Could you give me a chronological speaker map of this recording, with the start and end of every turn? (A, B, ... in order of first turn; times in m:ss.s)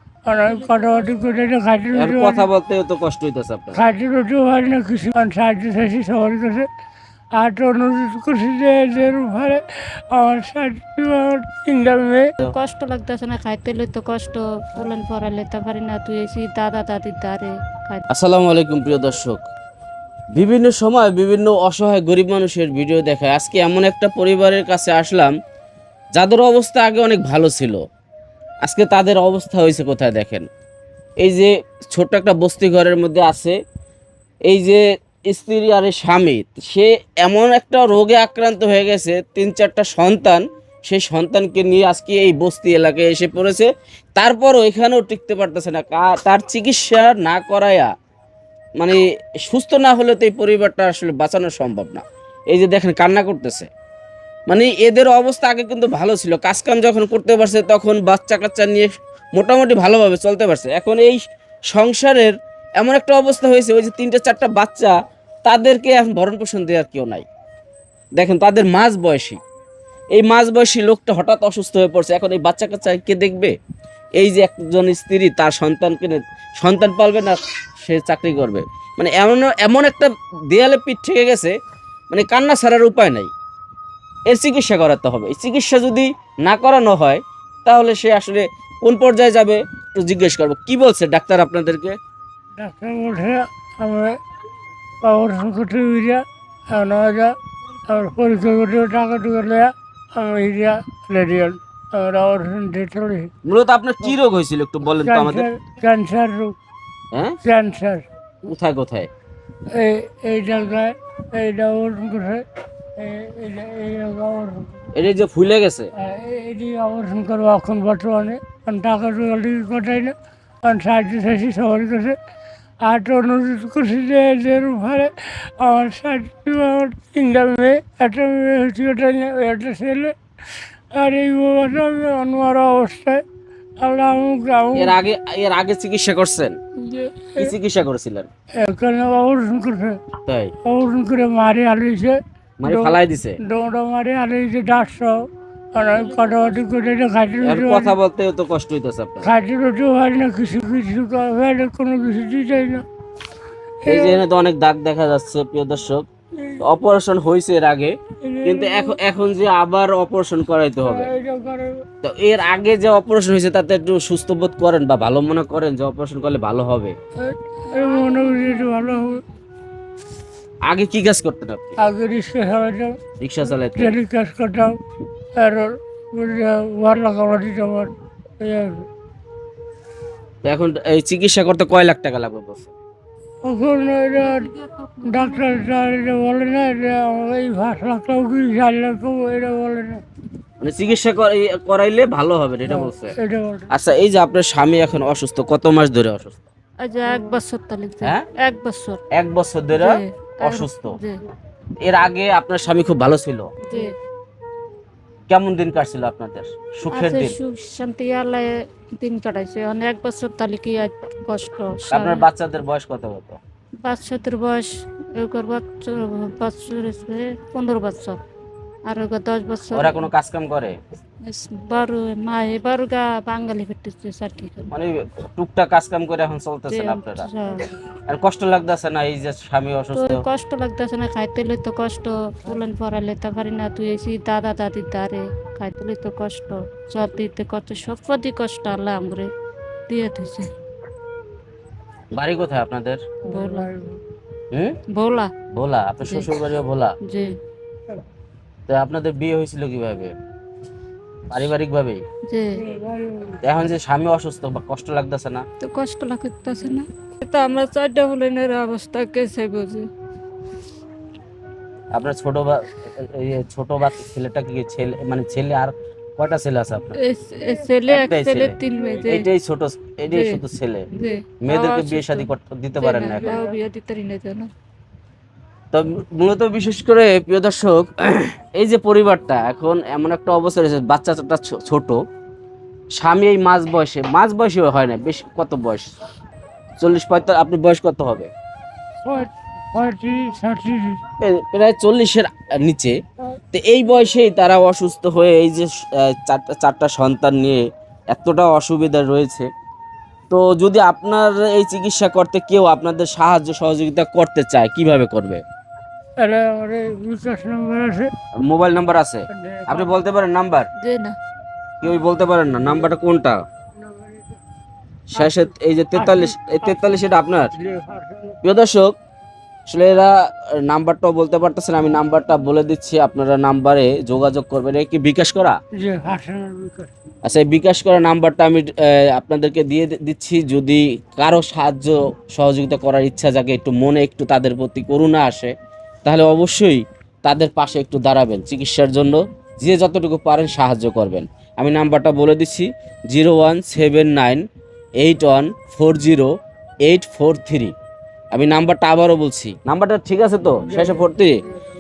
0:00.3-0:02.4 A
0:02.0-0:03.8 B
0:03.7-0:06.7 A
0:07.4-0:12.3 A
0:12.4-0:18.1 C
0:18.1-0:19.4 B
0:20.4-0:25.3 B
0:26.2-0:27.8 B
0:28.6-0:30.5 B
0:31.2-0:33.6 B
0:34.5-0:47.9 B
0:48.8-0:53.7 B
0:54.5-1:04.9 B
1:05.4-1:07.2 B
1:08.2-1:09.4 B
1:10.1-1:13.6 B
1:14.2-1:21.6 B
1:22.1-1:23.3 B
1:24.3-1:32.0 B
1:32.6-1:34.2 A
1:35.0-1:37.4 A
1:37.9-1:43.3 A
1:43.4-1:45.5 B
1:45.0-1:46.6 A
1:47.4-1:48.0 A
1:48.4-1:49.1 B
1:49.7-1:52.4 A
1:53.0-1:54.7 A
1:54.9-1:55.9 B
1:56.0-2:02.2 A
2:02.8-2:10.2 A
2:10.9-2:13.2 A
2:13.8-2:15.0 A
2:14.8-2:16.6 B
2:16.8-2:17.5 A
2:17.4-2:18.3 B
2:18.6-2:20.0 A
2:20.3-2:20.5 B
2:20.6-2:25.2 A
2:22.6-2:23.4 B
2:25.7-2:27.9 A
2:27.4-2:29.3 B
2:29.2-2:32.8 A
2:33.8-2:34.2 A
2:33.9-2:36.0 B
2:36.6-2:41.1 B
2:38.2-2:39.0 A
2:40.8-2:41.8 A
2:42.0-2:47.0 B
2:47.2-2:49.2 A
2:50.7-2:51.8 B
2:51.8-2:53.0 A
2:53.2-2:54.0 B
2:53.7-2:54.8 A
2:55.4-2:58.8 A
3:00.4-3:02.7 B
3:03.4-3:04.5 A
3:05.0-3:10.0 A
3:10.6-3:13.2 B
3:12.7-3:13.7 A
3:13.7-3:16.4 B
3:16.8-3:19.0 C
3:19.1-3:21.0 B
3:19.7-3:21.2 C
3:21.8-3:23.5 B
3:23.6-3:23.9 C
3:25.3-3:27.4 B
3:26.9-3:32.3 C
3:31.9-3:33.4 B
3:33.8-3:38.2 C
3:38.9-3:40.1 C
3:39.7-3:40.8 B
3:41.2-3:44.7 C
3:44.7-3:47.3 B
3:46.7-3:47.7 C
3:48.1-3:50.2 B
3:50.0-3:59.3 C
3:59.9-4:00.5 C
4:02.1-4:03.0 B
4:03.2-4:04.0 A
4:03.3-4:03.7 C
4:04.5-4:04.8 B
4:04.9-4:05.3 C
4:05.5-4:07.0 B
4:06.0-4:06.3 C
4:07.0-4:07.3 C
4:08.7-4:10.1 B
4:11.3-4:12.0 B
4:12.6-4:13.4 A
4:13.4-4:15.4 B
4:15.6-4:19.9 C
4:21.9-4:27.0 B
4:27.0-4:29.3 C
4:27.9-4:30.9 B
4:30.1-4:30.4 C
4:30.9-4:34.5 C
4:31.4-4:33.4 B
4:35.7-4:42.0 B
4:43.0-4:45.9 B
4:46.8-4:48.3 B
4:49.0-4:51.0 A
4:51.2-4:53.0 B
4:53.5-4:59.5 B
5:00.3-5:05.4 B
5:06.2-5:08.1 A
5:08.4-5:10.7 B
5:09.3-5:09.9 A
5:10.8-5:11.2 C
5:11.8-5:13.4 B
5:13.9-5:14.2 A
5:15.1-5:17.5 B
5:15.2-5:17.0 A
5:17.6-5:18.4 A
5:18.4-5:19.0 B
5:19.7-5:25.6 B
5:25.8-5:26.9 A
5:27.2-5:35.5 B
5:36.0-5:44.4 B
5:45.0-5:46.3 B
5:46.8-5:47.7 B
5:48.3-5:51.4 B